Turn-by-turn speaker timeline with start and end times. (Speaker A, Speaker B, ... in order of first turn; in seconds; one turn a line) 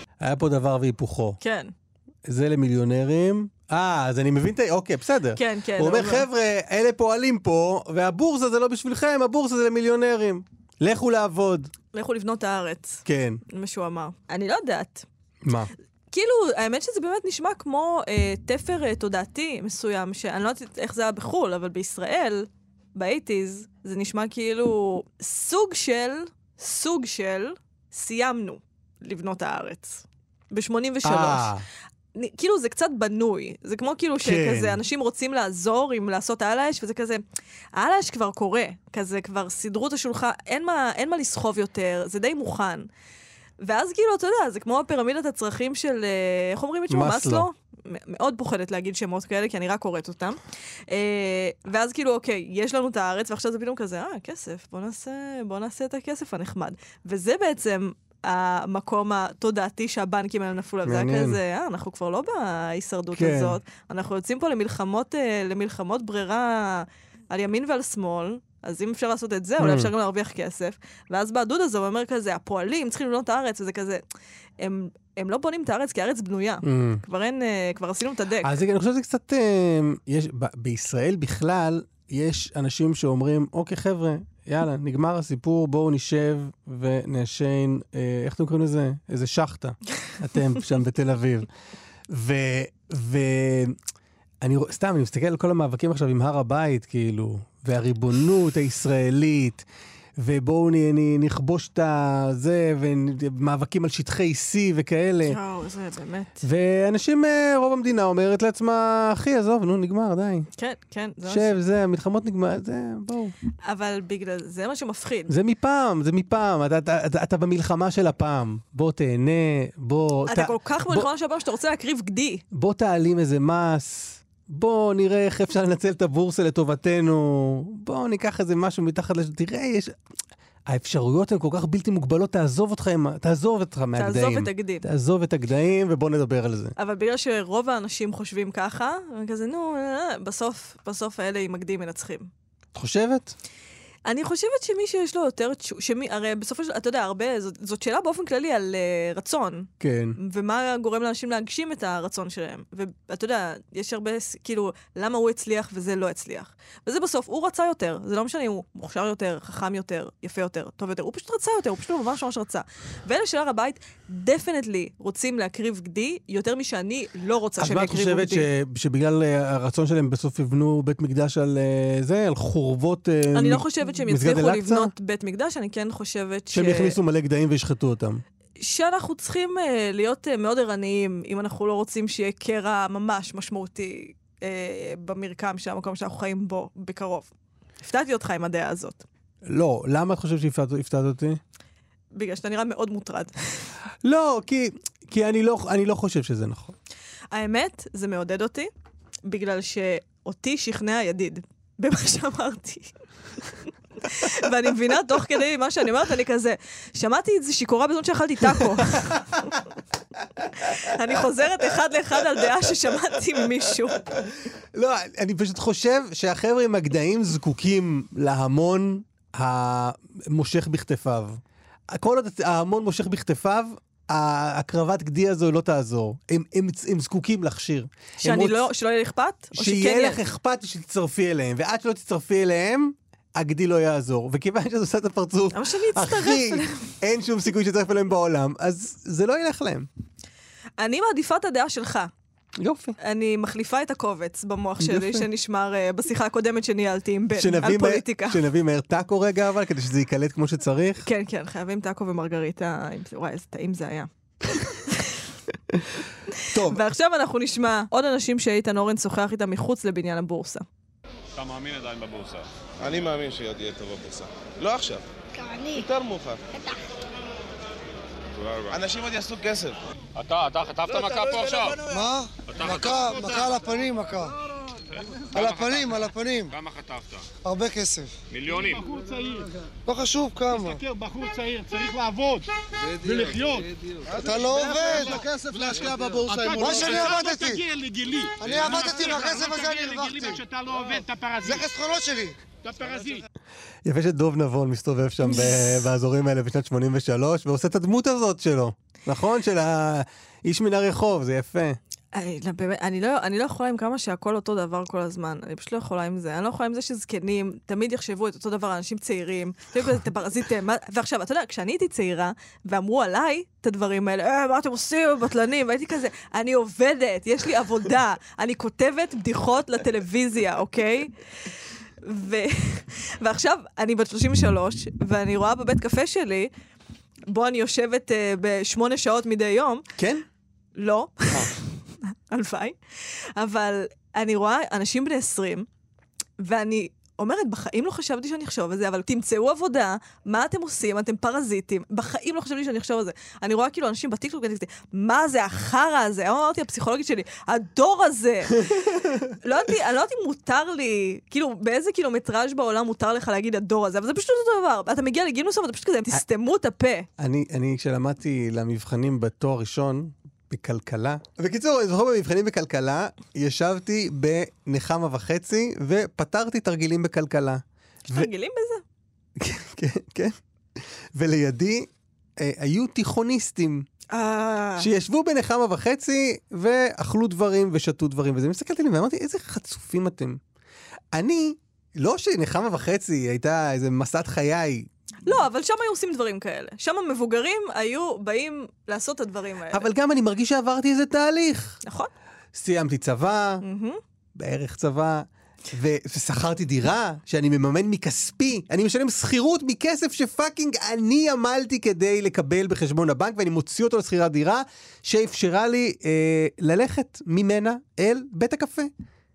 Speaker A: 0.2-1.4
Speaker B: 1.4-1.7
Speaker A: 2.3-11.7
Speaker B: 5.4-6.3
Speaker B: 11.9-15.1
Speaker A: 13.1-13.4
Speaker A: 15.4-15.7
Speaker B: 16.1-31.5
Speaker A: 31.0-31.6
Speaker B: 32.1-37.2
Speaker A: 34.2-34.8
Speaker B: 37.8-42.9
Speaker B: 43.6-74.0
Speaker A: 46.9-47.5
Speaker A: 60.9-61.4
Speaker A: 63.1-63.6
Speaker A: 69.6-69.9
Speaker B: 74.6-78.5
Speaker A: 76.6-77.0
Speaker A: 78.4-91.5
Speaker A: 92.1-93.8
Speaker A: 94.4-99.7
Speaker A: 100.2-105.4
Speaker B: 105.2-106.4
Speaker A: 106.4-110.5
Speaker B: 110.6-111.6
Speaker A: 111.3-113.3
Speaker B: 113.7-115.3
Speaker A: 115.3-121.1
Speaker B: 120.3-122.4
Speaker A: 122.5-129.9
Speaker A: 130.7-136.7
Speaker B: 134.0-134.9
Speaker B: 136.8-142.3
Speaker A: 142.8-143.3
Speaker B: 144.1-168.5
Speaker A: 149.8-150.2
Speaker A: 167.6-174.9
Speaker B: 173.3-177.0
Speaker A: 176.5-178.2
Speaker B: 178.6-187.3
Speaker B: 187.8-189.0
Speaker A: 189.4-191.4
Speaker B: 192.1-193.7
Speaker A: 194.0-196.8
Speaker B: 197.3-198.7
Speaker B: 199.2-202.9
Speaker B: 203.4-209.5
Speaker A: 208.9-209.2
Speaker B: 210.6-214.1
Speaker A: 214.7-228.6
Speaker B: 228.2-230.2
Speaker A: 229.6-239.9
Speaker B: 235.5-236.9
Speaker B: 240.8-242.1
Speaker A: 242.6-243.0
Speaker B: 243.0-248.4
Speaker A: 244.8-245.3
Speaker A: 247.3-251.1
Speaker B: 251.0-255.2
Speaker B: 256.4-260.6
Speaker A: 256.5-256.8
Speaker C: 261.4-262.5
Speaker D: 262.8-266.4
Speaker D: 268.4-269.8
Speaker C: 270.1-271.9
Speaker E: 271.9-274.4
Speaker C: 272.5-273.5
Speaker C: 274.9-277.3
Speaker E: 275.4-276.5
Speaker E: 277.4-278.1
Speaker C: 278.3-278.8
Speaker F: 278.5-279.5
Speaker E: 279.9-280.8
Speaker F: 280.5-291.7
Speaker E: 284.2-287.6
Speaker E: 288.4-290.4
Speaker E: 291.5-292.4
Speaker F: 292.6-293.2
Speaker A: 293.9-301.8
Speaker B: 302.1-321.1
Speaker B: 322.0-326.5
Speaker B: 327.3-329.9
Speaker A: 330.0-330.2
Speaker B: 330.8-335.7
Speaker B: 336.4-348.8
Speaker A: 348.7-349.3
Speaker B: 349.4-357.1
Speaker A: 357.2-368.3
Speaker B: 368.1-368.8
Speaker A: 369.4-373.9
Speaker B: 374.1-374.9
Speaker A: 374.8-380.4
Speaker A: 381.1-384.9
Speaker B: 385.3-389.9
Speaker A: 389.7-391.8
Speaker B: 391.8-392.1
Speaker A: 392.5-393.6
Speaker B: 393.6-394.0
Speaker A: 394.4-408.9